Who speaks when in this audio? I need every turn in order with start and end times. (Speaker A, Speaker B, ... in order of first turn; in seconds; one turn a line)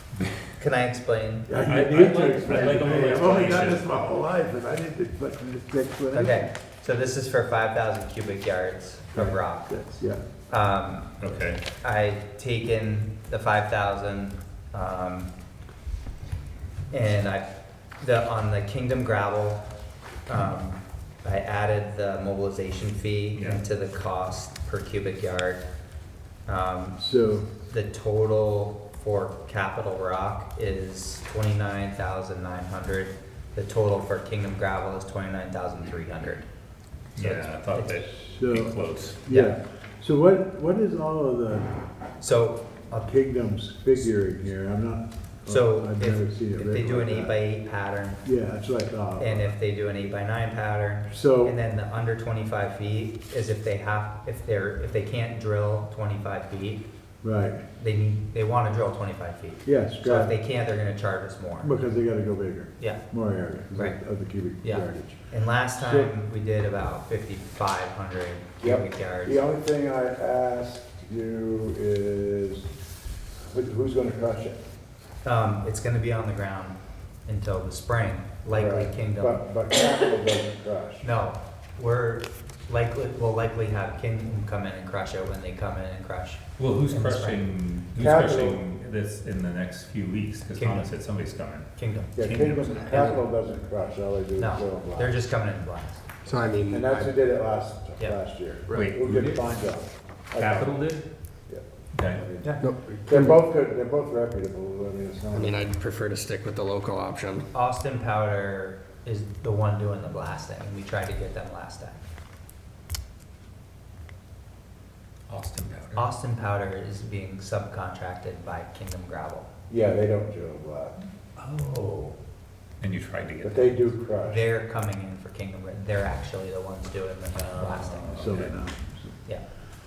Speaker A: 0.6-3.3
Speaker B: 1.5-6.5
Speaker C: 1.6-3.9
Speaker A: 6.1-9.8
Speaker B: 9.1-10.2
Speaker A: 10.5-11.1
Speaker C: 11.2-11.6
Speaker A: 11.8-15.3
Speaker A: 16.9-19.6
Speaker A: 20.3-25.7
Speaker C: 23.3-23.6
Speaker A: 26.4-27.0
Speaker B: 27.0-27.5
Speaker A: 27.6-36.5
Speaker C: 37.1-39.2
Speaker A: 37.1-38.0
Speaker B: 38.0-41.7
Speaker A: 39.3-39.5
Speaker A: 42.2-43.1
Speaker B: 42.9-47.4
Speaker A: 45.5-48.2
Speaker B: 48.2-49.5
Speaker A: 49.2-56.9
Speaker B: 51.1-51.6
Speaker B: 57.2-57.6
Speaker A: 57.8-61.8
Speaker B: 59.6-60.3
Speaker B: 61.6-66.1
Speaker A: 62.8-64.0
Speaker A: 64.6-69.4
Speaker B: 68.6-72.7
Speaker B: 73.4-74.6
Speaker A: 75.2-79.5
Speaker B: 78.5-81.0
Speaker A: 81.0-87.4
Speaker C: 86.6-93.2
Speaker B: 87.9-88.6
Speaker A: 90.5-90.9
Speaker A: 91.7-92.2
Speaker B: 92.1-95.2
Speaker A: 94.4-96.0
Speaker D: 96.2-97.1
Speaker B: 96.7-100.9
Speaker C: 98.7-99.6
Speaker C: 100.3-101.1
Speaker B: 101.5-105.6
Speaker C: 101.9-102.3
Speaker D: 102.6-103.4
Speaker D: 105.3-107.5
Speaker A: 107.5-112.0
Speaker C: 115.3-116.1
Speaker A: 115.9-119.5
Speaker B: 119.7-121.0
Speaker A: 121.4-122.1
Speaker C: 122.8-123.8
Speaker B: 123.4-124.4
Speaker A: 124.2-128.4
Speaker C: 127.5-128.5
Speaker B: 128.1-129.2